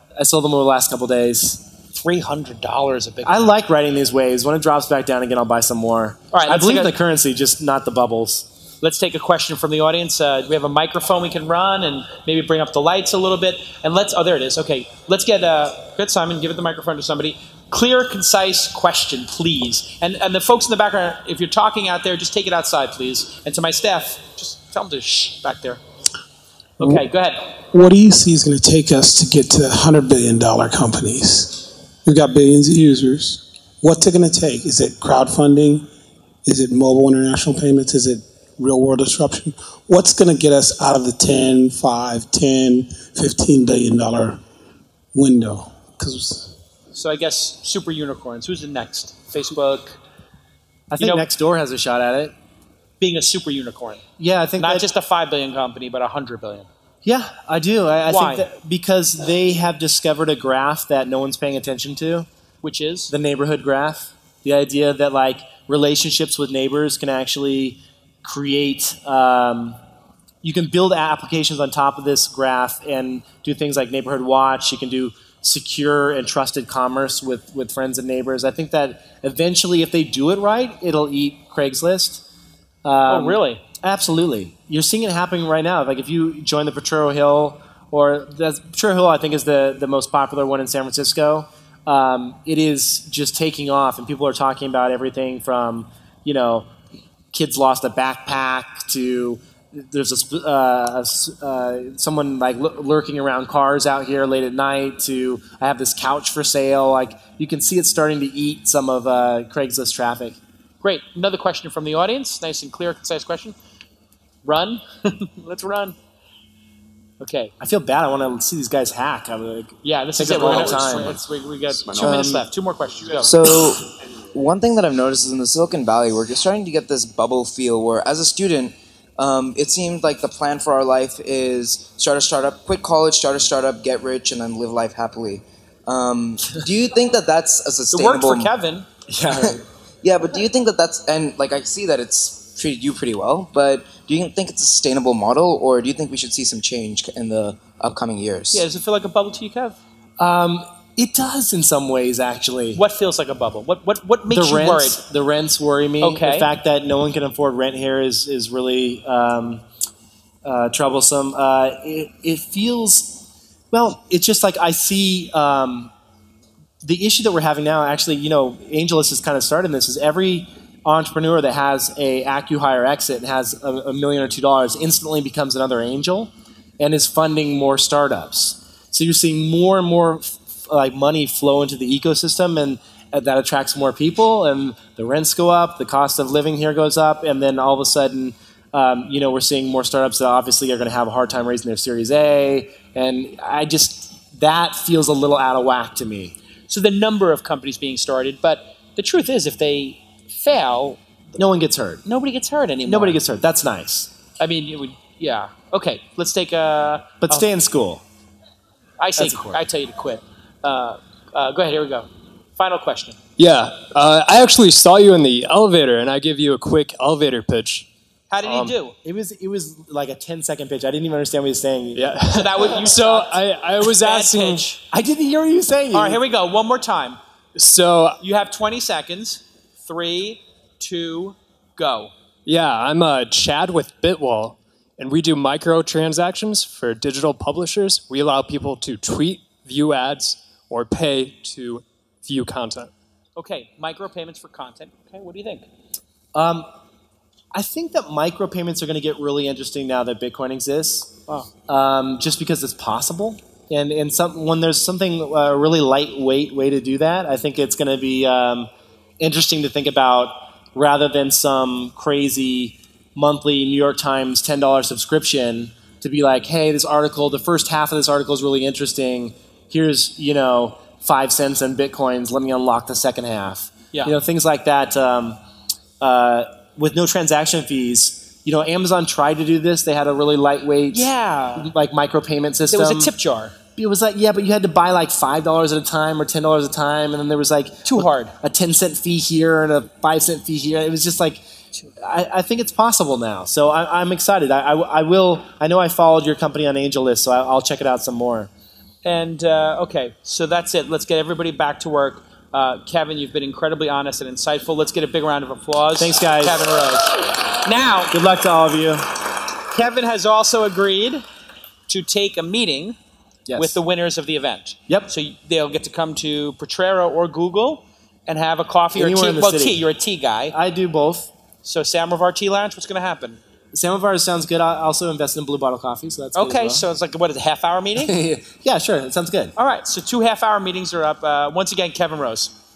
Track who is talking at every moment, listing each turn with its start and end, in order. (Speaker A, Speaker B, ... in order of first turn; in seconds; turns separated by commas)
Speaker A: 0.2-1.6, Speaker B: 1.9-3.5, Speaker A: 3.2-8.5, Speaker B: 6.3-6.9, Speaker B: 8.8-25.8, Speaker B: 26.8-27.4, Speaker C: 27.7-35.9, Speaker C: 36.4-44.4, Speaker C: 45.1-46.5, Speaker B: 46.9-50.0, Speaker A: 50.9-52.3, Speaker B: 51.0-51.2, Speaker B: 53.0-54.0, Speaker A: 54.2-54.9, Speaker B: 54.6-56.7, Speaker A: 57.0-62.3, Speaker B: 58.1-58.4, Speaker B: 62.6-63.1, Speaker A: 63.1-69.8, Speaker A: 70.4-82.2, Speaker A: 82.8-96.7, Speaker B: 83.1-83.6, Speaker A: 97.3-110.4, Speaker B: 110.8-113.5, Speaker B: 114.4-116.0, Speaker B: 117.2-117.5, Speaker A: 117.6-121.2, Speaker B: 119.8-123.3, Speaker D: 121.8-122.5, Speaker D: 123.2-138.5, Speaker B: 137.9-138.9, Speaker A: 139.1-139.6, Speaker D: 139.3-148.7, Speaker B: 148.5-149.8, Speaker A: 150.2-152.8, Speaker B: 152.7-155.0, Speaker A: 154.3-159.6, Speaker B: 156.0-156.5, Speaker A: 160.4-165.9, Speaker A: 166.8-196.3, Speaker B: 196.7-201.3, Speaker A: 201.4-202.0, Speaker B: 202.1-203.2, Speaker A: 202.8-204.1, Speaker B: 204.4-207.4, Speaker A: 207.2-208.0, Speaker B: 209.0-213.2, Speaker A: 209.2-209.6, Speaker E: 213.4-217.9, Speaker B: 218.3-218.9, Speaker A: 218.4-222.2, Speaker E: 221.9-224.7, Speaker B: 222.3-224.8, Speaker A: 224.9-226.2, Speaker B: 225.9-227.2, Speaker E: 227.5-228.2, Speaker B: 228.2-232.1, Speaker E: 232.4-242.9, Speaker B: 243.3-245.7, Speaker A: 246.3-246.7, Speaker A: 247.5-251.1, Speaker A: 251.7-275.4, Speaker A: 276.0-283.1, Speaker B: 280.9-281.7, Speaker B: 282.7-283.5, Speaker A: 283.8-291.4, Speaker B: 287.9-288.3, Speaker A: 292.0-298.5, Speaker B: 299.0-308.1, Speaker A: 306.0-306.7, Speaker A: 308.1-309.1, Speaker B: 309.7-311.2, Speaker B: 311.9-313.0, Speaker A: 313.5-313.8, Speaker B: 313.5-320.6, Speaker A: 318.9-319.8, Speaker A: 320.5-321.3, Speaker B: 321.6-323.4, Speaker A: 323.7-326.9, Speaker B: 326.4-328.1, Speaker A: 328.0-329.5, Speaker B: 329.6-332.5